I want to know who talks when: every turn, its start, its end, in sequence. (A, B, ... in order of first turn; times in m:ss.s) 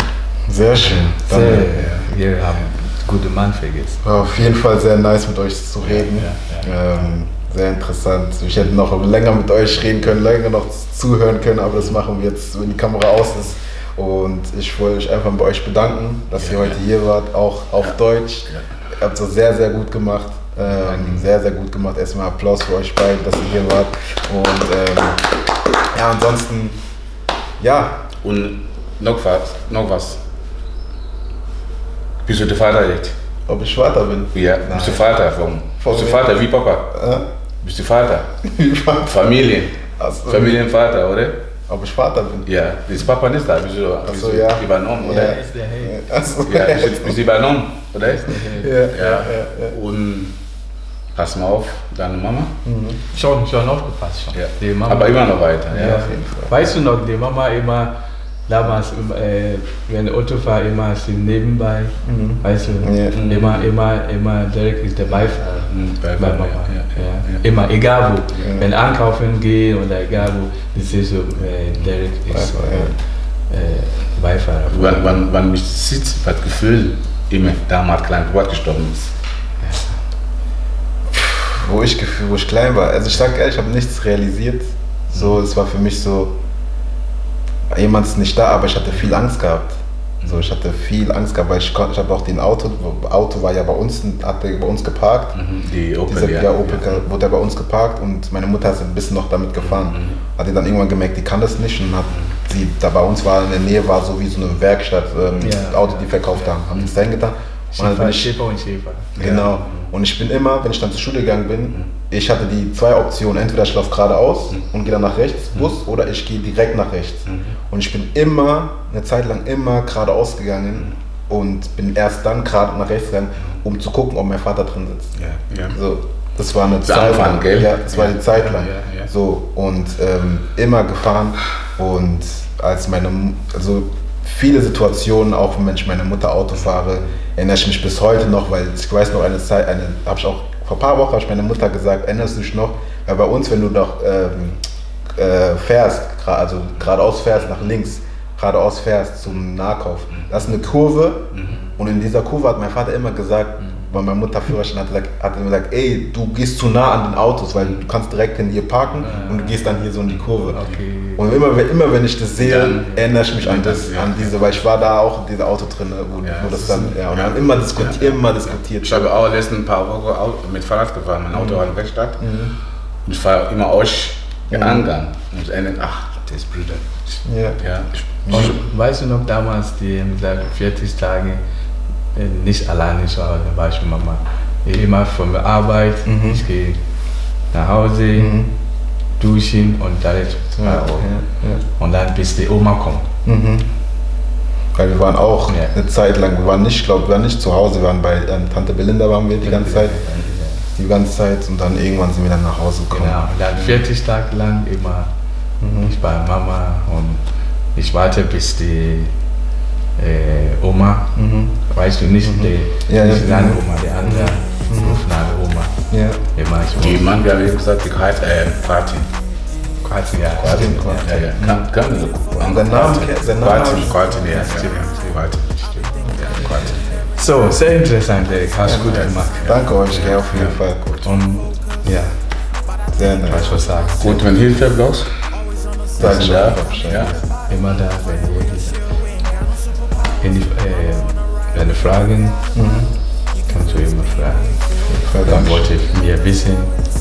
0:00.4-0:02.1 A
0:01.2-0:04.0 B
0:04.0-0:25.3 A
0:05.8-0:06.7 C
0:16.4-0:16.8 C
0:20.8-0:21.2 B
0:25.9-0:26.8 A
0:27.6-0:28.0 A
0:28.2-0:30.2 C
0:32.2-0:33.2 C
0:33.5-0:35.1 A
0:34.3-0:36.9 C
0:35.8-0:36.4 A
0:36.9-0:37.2 A
0:37.6-0:38.3 C
0:38.4-0:39.1 A
0:39.0-0:41.4 C
0:40.0-0:40.6 A
0:41.7-0:42.5 A
0:42.4-0:45.4 C
0:44.0-0:47.2 A
0:45.0-0:46.2 B
0:46.4-0:50.4 C
0:48.1-0:48.8 B
0:48.5-0:49.8 A
0:51.1-0:52.5 C
0:52.6-0:53.0 A
0:53.1-0:57.9 B
0:54.3-0:56.1 C
0:55.7-0:56.7 A
0:58.5-1:12.9 B
1:02.0-1:03.2 A
1:03.1-1:03.7 C
1:05.6-1:07.4 C
1:08.4-1:08.7 A
1:12.3-1:12.9 A
1:13.5-1:15.2 B
1:14.7-1:19.1 C
1:19.6-1:20.0 B
1:21.1-1:26.3 A
1:27.7-1:35.4 A
1:35.3-1:37.0 C
1:36.1-1:48.3 A
1:39.6-1:40.2 C
1:45.4-1:46.6 B
1:47.7-1:49.4 B
1:49.2-2:05.1 A
1:49.2-1:49.9 C
1:57.3-1:57.5 C
2:05.2-2:05.8 C
2:05.7-2:24.6 A
2:06.8-2:09.1 C
2:25.1-2:40.6 A
2:31.3-2:31.6 C
2:31.4-2:31.7 B
2:39.0-2:39.8 B
2:40.1-2:40.7 C
2:40.4-2:41.5 B
2:41.2-2:49.1 A
2:42.4-2:44.5 C
2:43.0-2:43.2 B
2:46.2-2:52.2 C
2:51.3-2:52.5 A
2:53.0-2:58.6 C
2:54.5-2:54.9 A
2:57.2-2:57.6 A
2:58.2-2:58.6 A
2:58.3-3:01.4 B
3:02.1-3:06.8 B
3:06.0-3:06.4 A
3:07.5-3:08.4 B
3:08.1-3:08.5 A
3:09.2-3:11.1 B
3:10.6-3:11.6 A
3:11.8-3:13.1 B
3:13.2-3:13.7 A
3:14.7-3:20.0 A
3:15.5-3:15.7 B
3:19.4-3:20.6 B
3:20.8-3:23.8 A
3:22.9-3:25.1 B
3:25.6-3:25.9 A
3:25.8-3:27.2 B
3:27.7-3:29.1 B
3:30.0-3:37.0 B
3:31.2-3:31.6 A
3:32.2-3:35.0 A
3:35.9-3:36.2 A
3:36.8-3:39.1 C
3:39.8-3:41.3 B
3:40.3-3:45.5 C
3:40.4-3:41.7 A
3:42.4-3:44.1 A
3:43.4-3:46.0 B
3:46.0-3:46.9 A
3:46.1-3:46.8 C
3:46.6-3:50.2 B
3:48.6-3:50.8 A
3:48.8-3:51.1 C
3:51.0-3:52.2 B
3:52.9-3:53.6 A
3:53.2-3:54.3 B
3:54.0-3:55.1 C
3:56.0-3:57.1 A
3:56.0-3:57.1 C
3:57.1-3:58.8 B
4:00.2-4:02.5 B
4:02.5-4:02.9 A
4:03.5-4:06.8 B
4:04.8-4:05.7 A